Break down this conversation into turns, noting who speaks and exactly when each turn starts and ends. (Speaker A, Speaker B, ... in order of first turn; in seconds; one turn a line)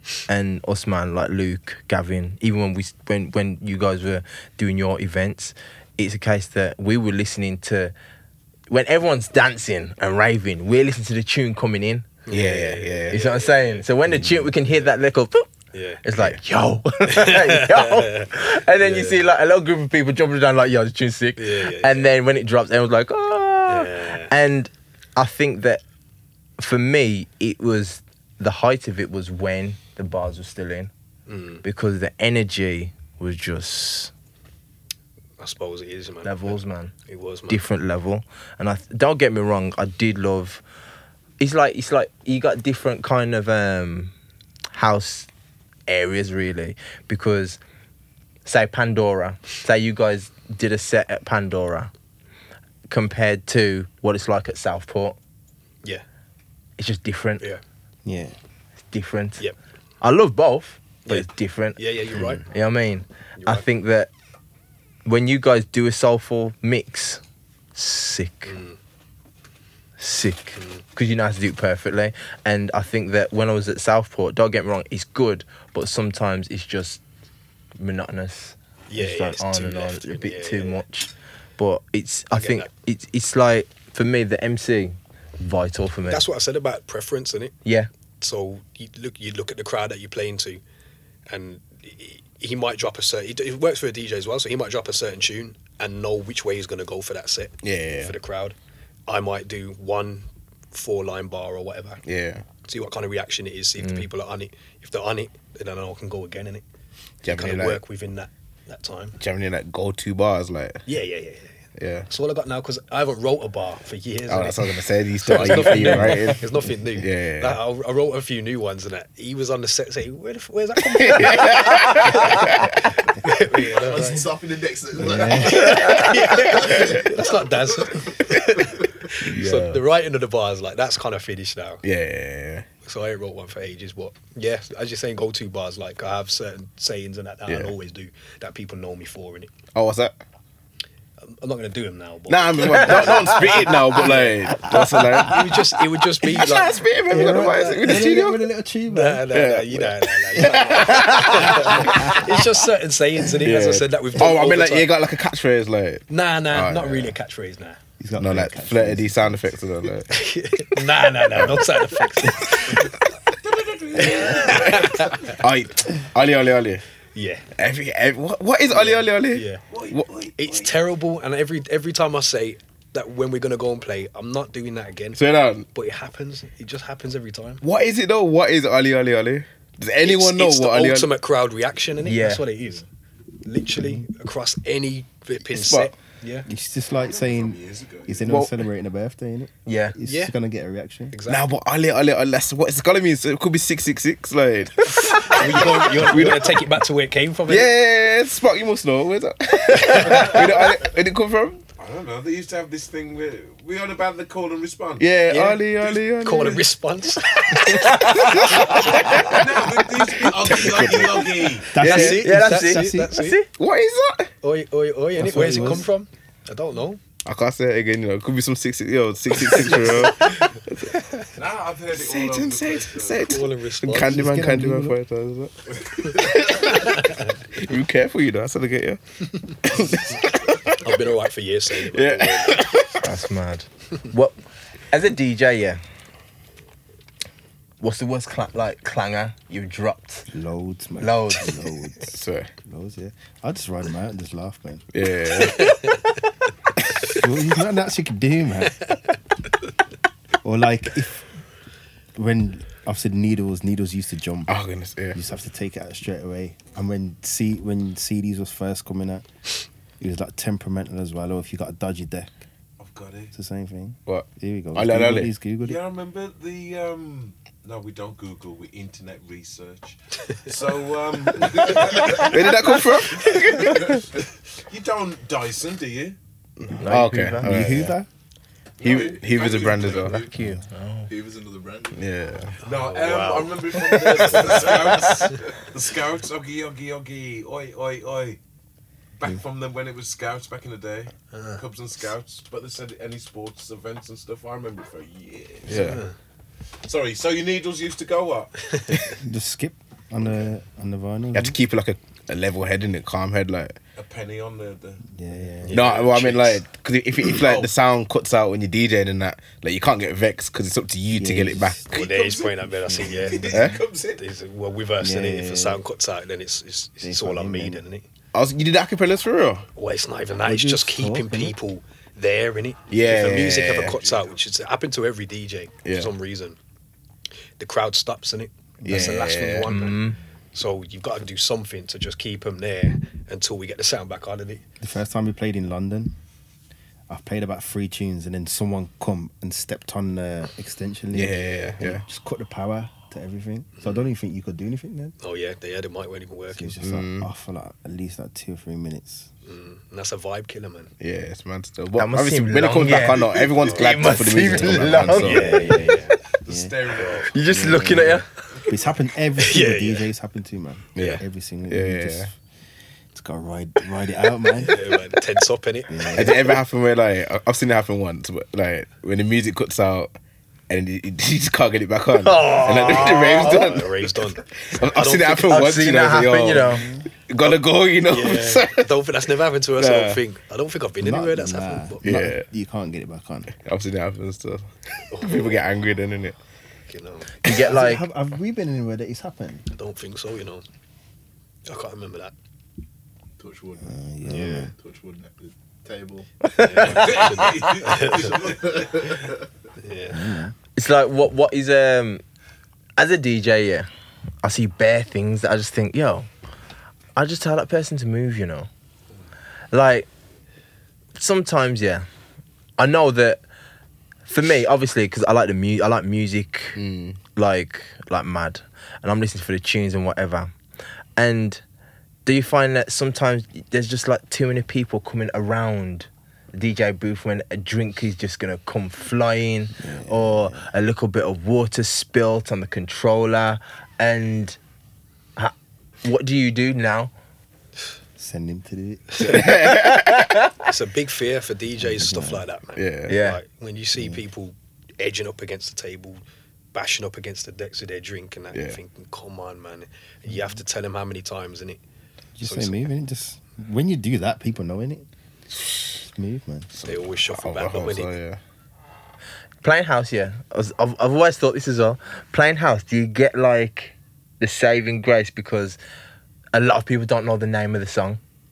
Speaker A: 0.2-7.9
Speaker A: 8.7-12.1
Speaker B: 12.2-13.9
Speaker C: 12.3-13.2
Speaker A: 13.1-15.5
Speaker D: 14.1-14.5
Speaker B: 15.7-16.0
Speaker A: 16.0-25.8
Speaker B: 17.1-19.2
Speaker B: 21.4-22.1
Speaker B: 23.7-24.3
Speaker A: 26.6-30.9
Speaker B: 31.3-31.6
Speaker A: 31.6-34.1
Speaker B: 35.4-37.6
Speaker A: 36.2-36.9
Speaker A: 37.5-40.6
Speaker A: 41.4-44.1
Speaker A: 44.7-45.3
Speaker A: 45.9-47.6
Speaker A: 48.4-51.9
Speaker A: 52.9-55.1
Speaker A: 56.8-57.4
Speaker D: 58.0-58.4
Speaker A: 58.9-59.4
Speaker A: 60.0-61.8
Speaker B: 61.0-62.4
Speaker A: 62.3-64.1
Speaker B: 63.4-63.6
Speaker A: 65.0-67.2
Speaker A: 67.7-68.5
Speaker B: 68.5-68.8
Speaker A: 70.0-77.0
Speaker B: 70.5-70.8
Speaker A: 77.8-86.2
Speaker B: 78.9-80.8
Speaker B: 82.3-82.7
Speaker B: 86.1-87.5
Speaker B: 88.2-90.6
Speaker B: 91.3-98.5
Speaker C: 97.6-98.1
Speaker B: 99.1-102.0
Speaker C: 102.0-102.4
Speaker B: 102.6-106.6
Speaker A: 103.8-104.0
Speaker C: 107.2-107.8
Speaker B: 107.2-109.2
Speaker C: 109.2-110.8
Speaker B: 110.9-124.2
Speaker C: 111.8-112.1
Speaker C: 114.3-117.6
Speaker C: 120.9-122.8
Speaker E: 123.4-128.2
Speaker D: 125.0-126.0
Speaker B: 125.3-131.8
Speaker C: 129.2-129.8
Speaker C: 131.8-132.7
Speaker B: 132.8-139.5
Speaker C: 137.5-137.7
Speaker C: 139.7-140.2
Speaker B: 141.3-147.8
Speaker C: 142.3-148.5
Speaker D: 144.5-145.6
Speaker D: 147.1-149.2
Speaker B: 148.8-154.9
Speaker C: 149.3-152.5
Speaker D: 150.9-152.3
Speaker C: 153.4-157.2
Speaker B: 156.1-157.8
Speaker D: 158.0-159.5
Speaker C: 158.2-160.2
Speaker B: 160.1-163.0
Speaker C: 161.3-161.7
Speaker F: 163.4-165.3
Speaker B: 163.9-165.4
Speaker C: 164.2-166.8
Speaker B: 167.1-167.5
Speaker C: 167.6-170.5
Speaker B: 168.7-169.7
Speaker F: 169.7-170.0
Speaker B: 170.4-175.2
Speaker C: 175.1-175.7
Speaker B: 175.7-177.6
Speaker C: 177.6-181.1
Speaker B: 180.0-182.8
Speaker A: 182.0-182.5
Speaker B: 183.4-186.5
Speaker D: 183.8-184.1
Speaker C: 185.5-185.9
Speaker D: 186.4-191.1
Speaker F: 186.9-188.4
Speaker C: 188.2-188.6
Speaker A: 189.7-189.9
Speaker B: 190.0-190.3
Speaker B: 191.1-191.4
Speaker C: 191.2-196.6
Speaker B: 194.9-197.7
Speaker C: 197.5-201.6
Speaker B: 199.9-200.3
Speaker F: 201.8-205.1
Speaker C: 205.0-206.7
Speaker B: 205.3-208.9
Speaker C: 207.5-209.3
Speaker A: 207.7-208.4
Speaker F: 208.8-211.8
Speaker C: 210.0-212.2
Speaker D: 211.7-213.1
Speaker B: 211.8-213.4
Speaker A: 211.8-213.5
Speaker C: 213.6-214.3
Speaker B: 214.4-217.0
Speaker D: 215.2-215.9
Speaker C: 217.2-220.4
Speaker B: 219.4-220.4
Speaker F: 221.3-223.4
Speaker C: 221.9-229.0
Speaker B: 223.2-224.2
Speaker D: 223.9-225.0
Speaker B: 226.1-227.4
Speaker C: 229.6-231.1
Speaker B: 230.8-232.7
Speaker C: 231.8-233.1
Speaker A: 233.0-234.3
Speaker A: 234.9-235.8
Speaker A: 237.8-240.3
Speaker D: 240.3-244.9
Speaker A: 241.0-241.6
Speaker C: 242.0-242.5
Speaker C: 244.9-245.7
Speaker D: 247.0-249.0
Speaker D: 250.4-251.3
Speaker D: 252.2-254.6
Speaker C: 254.5-255.2
Speaker D: 255.1-259.2
Speaker D: 260.0-262.3
Speaker F: 262.8-263.3
Speaker D: 263.3-265.8
Speaker C: 264.1-265.3
Speaker F: 265.6-272.4
Speaker C: 271.8-274.0
Speaker F: 273.2-273.9
Speaker F: 274.7-276.2
Speaker C: 276.6-277.9
Speaker A: 276.8-277.9
Speaker D: 277.4-278.1
Speaker F: 278.8-280.3
Speaker C: 278.8-280.2
Speaker E: 279.4-280.2
Speaker A: 280.0-281.1
Speaker E: 281.1-282.0
Speaker C: 281.9-282.5
Speaker B: 282.6-285.3
Speaker F: 282.6-288.4
Speaker F: 289.2-296.0
Speaker B: 291.3-291.6
Speaker C: 295.7-296.0
Speaker B: 295.7-296.1
Speaker F: 296.8-299.2
Speaker B: 298.7-299.1
Speaker D: 299.2-301.6
Speaker F: 300.2-300.5
Speaker C: 301.3-303.8
Speaker F: 303.9-305.0
Speaker D: 305.1-305.8
Speaker B: 305.6-306.1
Speaker C: 305.7-312.0
Speaker F: 305.7-306.5
Speaker D: 311.1-311.9
Speaker B: 311.9-318.0
Speaker F: 311.9-314.2
Speaker D: 312.8-313.8
Speaker C: 313.5-313.8
Speaker D: 315.0-315.8
Speaker D: 317.0-317.8
Speaker C: 318.3-319.6
Speaker B: 319.8-326.6
Speaker D: 320.4-321.5
Speaker C: 322.9-323.9
Speaker F: 323.8-324.3
Speaker C: 325.8-326.1
Speaker B: 327.6-334.6
Speaker D: 328.8-329.3
Speaker C: 328.8-329.7
Speaker A: 329.6-330.2
Speaker D: 334.8-336.1
Speaker D: 337.1-345.1
Speaker C: 341.1-342.0
Speaker B: 343.8-344.1
Speaker B: 345.2-346.8
Speaker D: 346.5-349.3
Speaker C: 346.8-347.3
Speaker B: 349.4-350.9
Speaker C: 351.0-355.6
Speaker A: 352.0-355.5
Speaker B: 353.5-353.9
Speaker D: 354.4-362.3
Speaker B: 355.1-356.1
Speaker F: 355.7-358.9
Speaker B: 356.9-357.3
Speaker A: 357.3-358.3
Speaker B: 359.4-360.1
Speaker C: 360.9-362.3
Speaker B: 361.0-361.2
Speaker D: 363.1-365.0
Speaker B: 364.5-366.3
Speaker D: 365.9-366.4
Speaker C: 366.1-370.1
Speaker C: 370.7-374.1
Speaker B: 372.1-375.8
Speaker C: 374.7-378.9
Speaker A: 375.5-376.9
Speaker D: 376.6-377.1
Speaker B: 378.1-382.0
Speaker C: 379.7-380.2
Speaker D: 381.0-383.5
Speaker C: 382.0-382.4
Speaker C: 383.6-386.4
Speaker B: 385.1-385.6
Speaker B: 386.9-387.4
Speaker A: 387.4-388.1
Speaker D: 387.4-389.7
Speaker B: 389.7-390.6
Speaker B: 391.6-392.3
Speaker E: 393.4-396.3
Speaker D: 393.8-394.7
Speaker A: 396.5-396.9
Speaker B: 396.6-399.0
Speaker F: 396.8-399.1
Speaker E: 397.9-399.4
Speaker B: 399.8-400.4
Speaker D: 400.1-400.5
Speaker A: 400.8-402.2
Speaker A: 403.0-403.9
Speaker A: 404.4-406.3
Speaker A: 407.1-408.7
Speaker A: 409.7-410.1
Speaker A: 411.1-412.1
Speaker A: 412.8-413.4
Speaker A: 414.3-416.8
Speaker C: 416.8-417.2
Speaker A: 417.3-420.5
Speaker A: 421.2-421.6
Speaker A: 422.2-434.6
Speaker D: 429.8-430.6
Speaker A: 435.4-437.1
Speaker D: 438.2-439.5
Speaker C: 439.2-440.3
Speaker A: 439.7-440.5
Speaker B: 440.6-446.2
Speaker D: 441.8-442.4
Speaker C: 442.7-443.1
Speaker A: 443.1-443.4
Speaker D: 443.9-444.2
Speaker B: 446.7-451.8
Speaker C: 448.5-448.8
Speaker D: 450.3-450.6
Speaker D: 452.4-455.1
Speaker B: 452.4-452.9
Speaker C: 455.6-455.9
Speaker D: 455.9-456.7
Speaker C: 456.7-458.4
Speaker B: 456.8-458.1
Speaker A: 459.6-465.8
Speaker A: 466.5-468.2